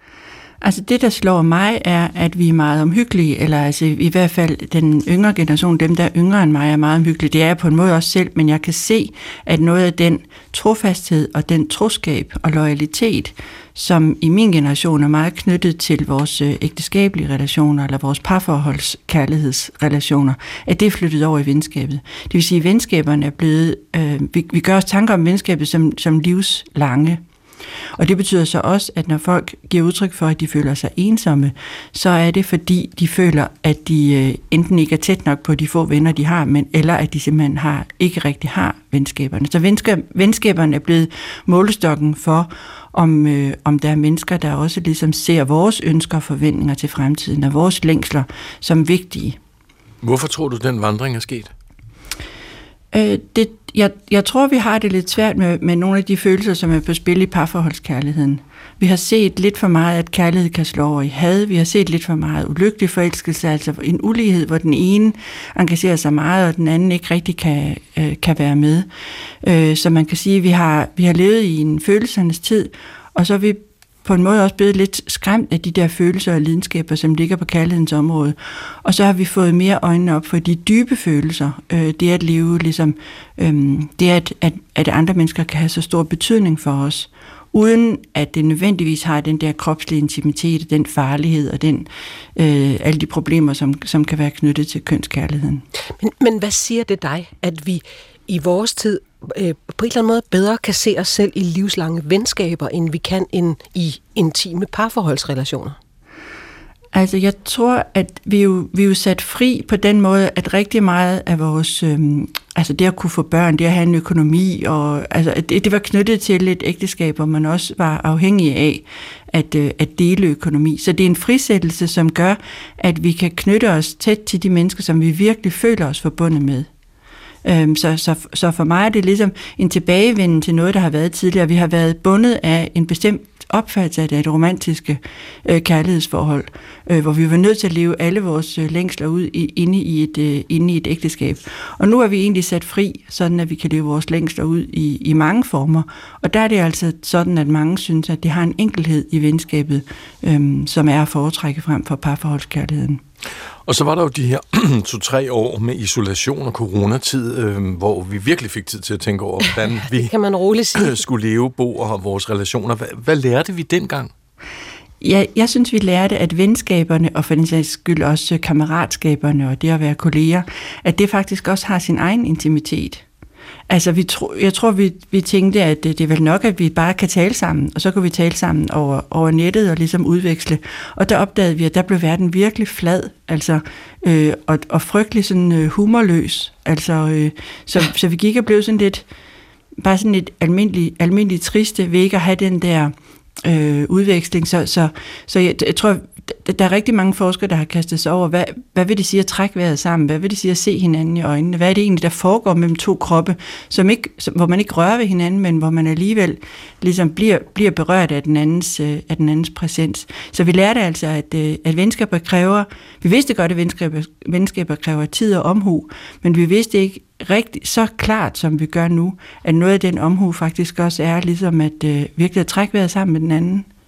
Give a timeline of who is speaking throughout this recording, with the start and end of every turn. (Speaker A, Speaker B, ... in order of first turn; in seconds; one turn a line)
Speaker A: 0.6-27.2
Speaker A: 28.0-49.4
Speaker B: 50.0-51.5
Speaker A: 52.9-68.9
Speaker A: 69.4-95.7
Speaker C: 96.0-105.8
Speaker A: 106.9-126.7
Speaker A: 127.4-153.0
Speaker B: 153.7-160.1
Speaker C: 159.9-161.0
Speaker B: 160.8-164.1
Speaker A: 165.0-173.0
Speaker A: 173.7-189.1
Speaker A: 189.8-223.7